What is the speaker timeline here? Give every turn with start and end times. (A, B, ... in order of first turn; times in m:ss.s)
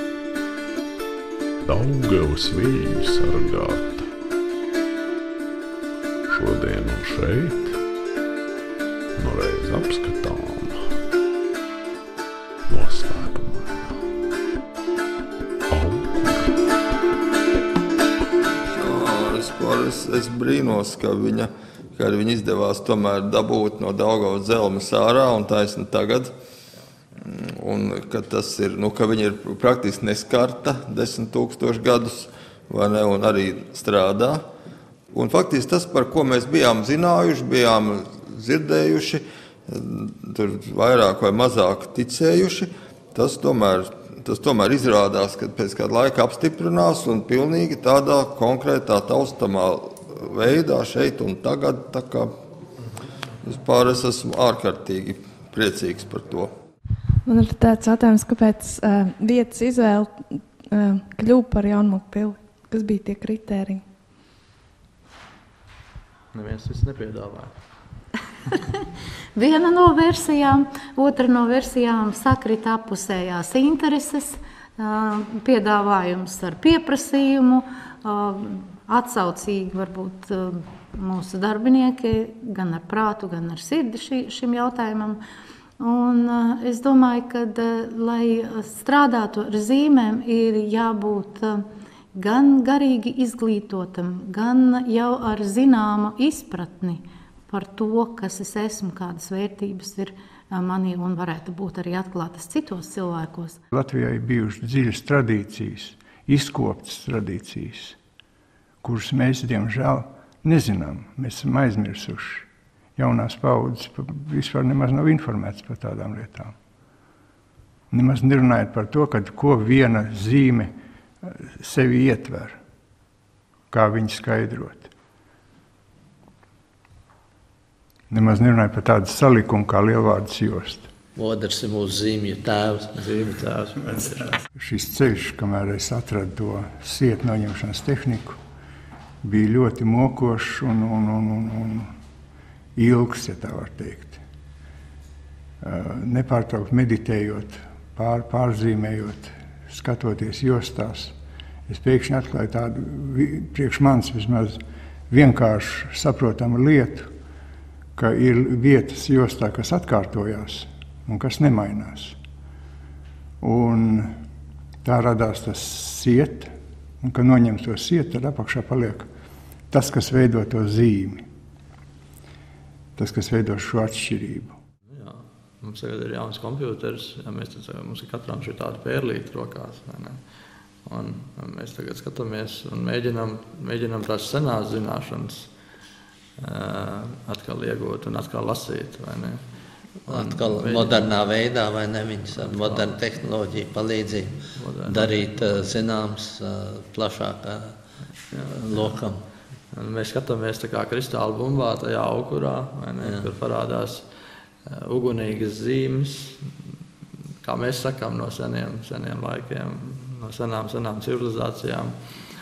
0:01.6-0:04.1 A
0:06.3-0:07.8 A
0:09.2-0:10.8 A
0:12.7-0:14.0 A
0:15.7-0:16.5 A
0:18.7-0:26.3 B
0:27.2-0:34.4 B
0:35.1-0:52.3 B
0:53.4-0:56.5 B
0:57.3-1:03.8 C
1:06.3-1:07.5 D
1:09.3-1:25.2 E
1:25.8-1:43.6 E
1:43.7-1:48.0 F
1:48.8-1:56.5 F
1:57.9-2:00.7 F
2:01.2-2:02.6 F
2:03.7-2:04.9 F
2:08.1-2:10.9 F
2:11.2-2:13.0 G
2:12.9-2:14.5 D
2:14.6-2:18.4 F
2:19.2-2:21.9 F
2:22.8-2:24.2 F
2:25.6-2:31.2 F
2:31.7-2:34.6 F
2:35.1-2:37.1 F
2:38.0-2:42.2 F
2:43.4-2:44.1 F
2:44.8-2:49.1 F
2:49.7-2:51.3 F
2:53.0-2:54.6 F
2:54.9-3:00.2 D
3:00.8-3:05.5 D
3:06.4-3:09.4 D
3:10.1-3:11.2 D
3:10.1-3:17.8 G
3:12.3-3:13.0 D
3:14.5-3:15.7 D
3:18.3-3:19.0 D
3:18.6-3:19.2 G
3:19.7-3:24.0 D
3:23.0-3:23.3 G
3:24.7-3:26.4 D
3:27.4-3:31.9 D